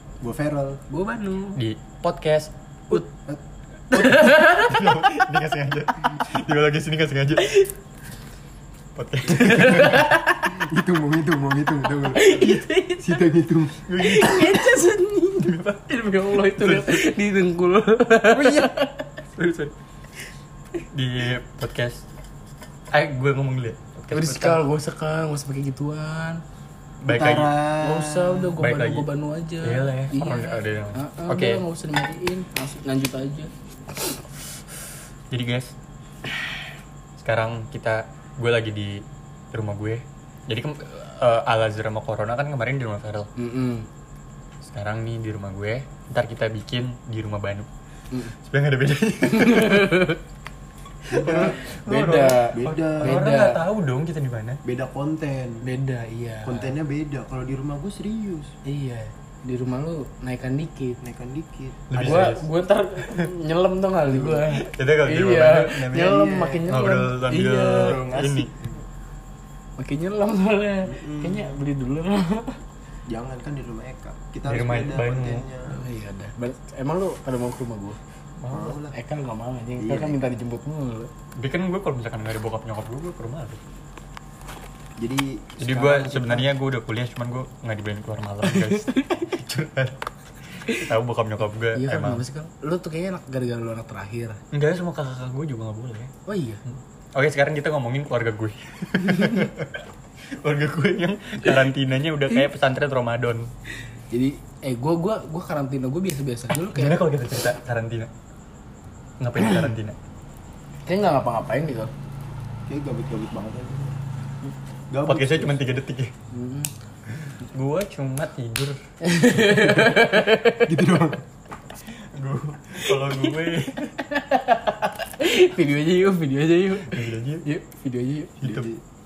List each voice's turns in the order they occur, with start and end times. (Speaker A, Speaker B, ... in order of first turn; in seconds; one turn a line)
Speaker A: 0.2-0.8
Speaker B: 0.9-1.6
Speaker C: 1.6-3.0
Speaker B: 3.9-5.2
Speaker C: 3.9-7.6
Speaker C: 9.0-10.2
Speaker B: 9.3-10.6
Speaker A: 10.5-13.9
Speaker B: 12.1-13.2
Speaker C: 13.9-14.8
Speaker B: 14.0-18.9
Speaker C: 16.4-17.0
Speaker C: 18.2-18.7
Speaker C: 19.4-19.7
Speaker C: 20.9-22.0
Speaker C: 22.9-24.6
Speaker B: 24.1-26.4
Speaker C: 27.0-27.6
Speaker A: 27.1-28.6
Speaker B: 27.8-33.5
Speaker C: 28.6-29.1
Speaker C: 29.6-31.6
Speaker C: 35.3-35.7
Speaker C: 37.2-43.3
Speaker B: 43.4-43.9
Speaker C: 44.6-47.7
Speaker C: 48.4-50.1
Speaker B: 49.3-50.2
Speaker A: 51.1-51.8
Speaker C: 51.1-54.6
Speaker B: 51.2-53.6
Speaker A: 52.4-53.2
Speaker A: 54.6-55.7
Speaker B: 55.6-56.8
Speaker A: 56.5-58.5
Speaker B: 58.7-61.0
Speaker A: 61.0-62.3
Speaker C: 61.9-62.5
Speaker B: 62.0-68.0
Speaker C: 63.0-63.3
Speaker A: 64.1-64.5
Speaker C: 64.5-65.9
Speaker A: 65.8-66.8
Speaker C: 66.7-68.5
Speaker A: 67.8-68.8
Speaker B: 69.8-72.6
Speaker A: 70.8-71.6
Speaker A: 73.1-75.8
Speaker C: 74.5-75.5
Speaker B: 75.7-78.0
Speaker C: 78.4-78.8
Speaker A: 78.5-79.0
Speaker B: 78.9-81.1
Speaker A: 79.8-80.2
Speaker C: 81.4-83.6
Speaker A: 85.0-86.5
Speaker C: 85.6-90.0
Speaker B: 88.7-89.0
Speaker C: 90.7-92.2
Speaker B: 91.7-94.4
Speaker C: 94.5-96.1
Speaker B: 96.3-96.6
Speaker C: 97.2-99.8
Speaker C: 100.4-103.5
Speaker B: 104.1-107.1
Speaker C: 106.7-108.1
Speaker C: 109.2-110.0
Speaker B: 110.9-111.9
Speaker A: 112.7-114.0
Speaker A: 114.9-115.6
Speaker C: 115.1-116.1
Speaker B: 116.3-116.7
Speaker C: 117.2-118.8
Speaker B: 119.0-120.7
Speaker A: 120.6-121.2
Speaker C: 121.9-124.0
Speaker B: 123.1-123.4
Speaker B: 124.0-128.7
Speaker C: 126.8-127.5
Speaker C: 128.4-128.7